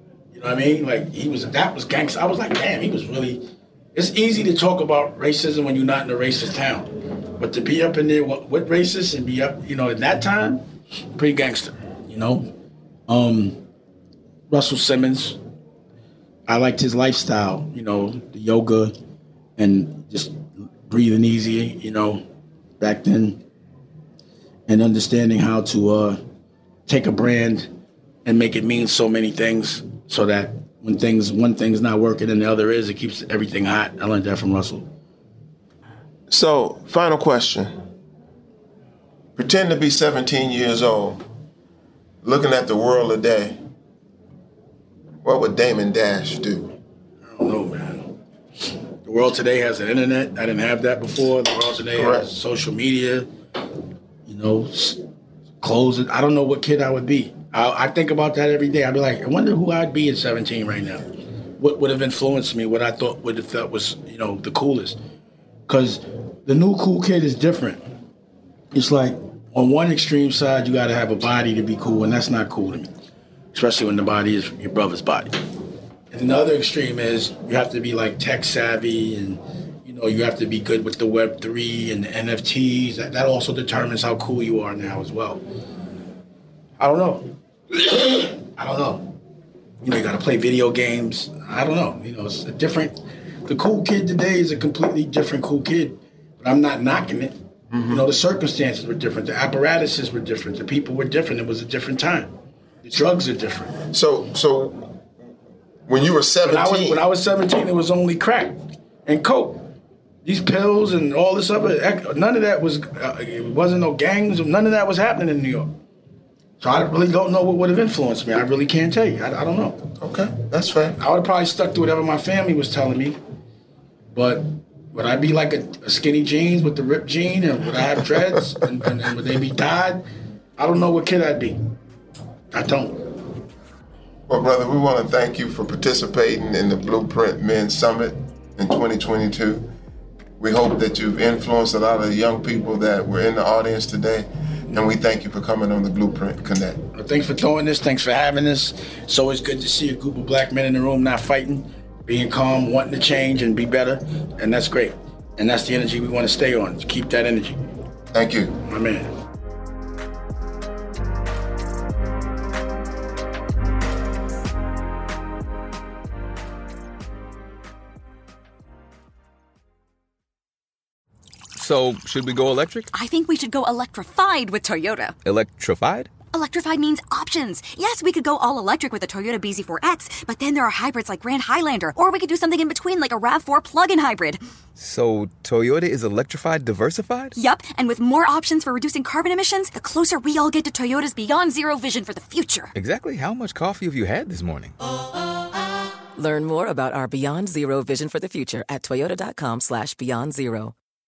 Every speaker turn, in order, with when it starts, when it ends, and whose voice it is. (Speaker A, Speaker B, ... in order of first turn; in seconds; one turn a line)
Speaker A: 0.3-12.5
Speaker A: 13.1-13.6
Speaker A: 14.5-15.4
Speaker A: 16.5-19.0
Speaker A: 19.6-22.2
Speaker A: 22.8-23.4
Speaker A: 24.7-26.2
Speaker A: 26.9-27.7
Speaker A: 28.2-34.9
Speaker B: 36.3-37.7
Speaker B: 39.4-41.2
Speaker B: 42.2-43.6
Speaker B: 45.2-46.8
Speaker A: 47.2-48.1
Speaker A: 48.7-53.3
Speaker B: 52.0-52.3
Speaker A: 54.3-55.0
Speaker A: 55.6-65.0
Speaker A: 65.7-67.8
Speaker A: 68.7-72.9
Speaker A: 73.5-75.4
Speaker A: 76.1-85.4
Speaker A: 86.8-89.2
Speaker A: 89.8-97.4
Speaker B: 97.7-98.1
Speaker A: 97.9-103.7
Speaker B: 103.8-104.9
Speaker B: 105.9-107.0
Speaker A: 106.5-109.7
Speaker A: 110.2-115.8
Speaker A: 116.6-119.9
Speaker B: 120.0-121.0
Speaker A: 121.0-123.2
Speaker A: 124.1-130.1
Speaker A: 130.6-131.6
Speaker A: 132.5-133.2
Speaker B: 134.3-139.7
Speaker B: 140.4-146.8
Speaker A: 146.9-157.6
Speaker B: 158.1-158.6
Speaker A: 158.6-159.1
Speaker C: 171.6-172.9
Speaker D: 172.9-175.2
Speaker C: 175.3-176.1
Speaker D: 176.3-184.4
Speaker C: 184.8-187.3
Speaker D: 187.3-192.7
Speaker C: 192.8-194.7
Speaker E: 196.2-200.7